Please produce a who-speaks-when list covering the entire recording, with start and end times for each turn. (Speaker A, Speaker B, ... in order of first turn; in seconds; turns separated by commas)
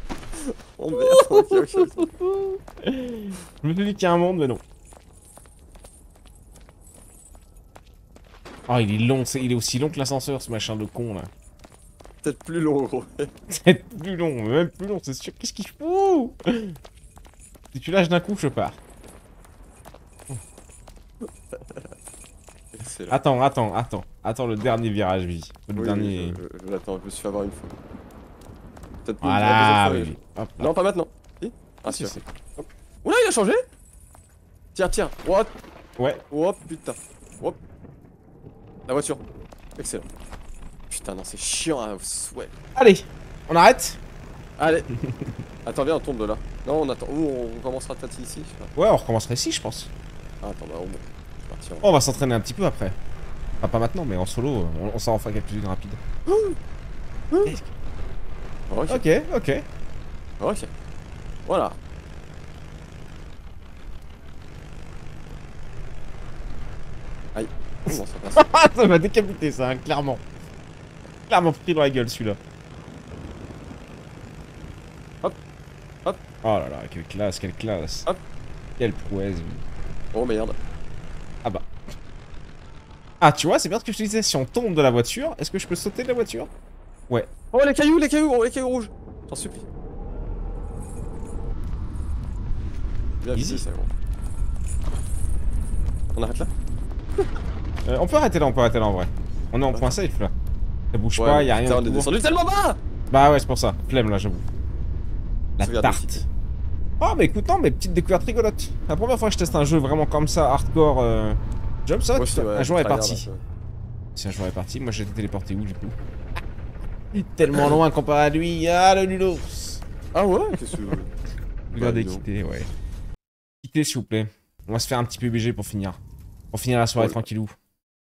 Speaker A: 0.3-2.1, Speaker B: 0.9-4.6, Speaker B: 8.7-11.3, Speaker A: 12.2-13.3, Speaker B: 13.5-16.8, Speaker B: 17.7-18.8, Speaker A: 21.5-21.9, Speaker A: 22.7-23.2, Speaker B: 23.1-26.4, Speaker A: 25.8-27.7, Speaker A: 29.0-32.2, Speaker B: 29.2-30.7, Speaker B: 31.9-32.7, Speaker A: 33.0-33.6, Speaker A: 34.7-35.5, Speaker A: 36.3-37.6, Speaker A: 38.9-39.2, Speaker A: 39.8-40.1, Speaker A: 40.9-42.5, Speaker B: 42.7-44.0, Speaker A: 44.6-44.9, Speaker A: 45.6-48.7, Speaker B: 48.8-49.9, Speaker A: 50.4-51.9, Speaker B: 51.8-53.0, Speaker B: 53.6-56.0, Speaker A: 56.3-56.6, Speaker B: 57.4-57.7, Speaker A: 58.7-59.0, Speaker B: 58.9-59.6, Speaker A: 60.4-60.7, Speaker A: 61.5-61.8, Speaker A: 67.3-68.4, Speaker B: 67.9-70.2, Speaker B: 71.3-72.4, Speaker B: 76.4-78.1, Speaker B: 78.8-79.6, Speaker A: 80.1-80.6, Speaker B: 83.2-86.5, Speaker A: 87.5-89.6, Speaker A: 93.2-93.9, Speaker B: 93.3-93.6, Speaker A: 96.1-96.5, Speaker B: 97.8-100.3, Speaker B: 100.9-102.1, Speaker A: 101.2-102.8, Speaker B: 103.1-104.4, Speaker B: 105.6-106.2, Speaker A: 105.6-106.2, Speaker B: 107.0-113.3, Speaker A: 112.1-113.4, Speaker B: 114.1-116.0, Speaker B: 117.1-119.8, Speaker A: 120.1-121.1, Speaker B: 121.7-122.7, Speaker A: 121.7-122.2, Speaker B: 123.6-126.0, Speaker B: 126.5-127.5, Speaker A: 127.0-127.2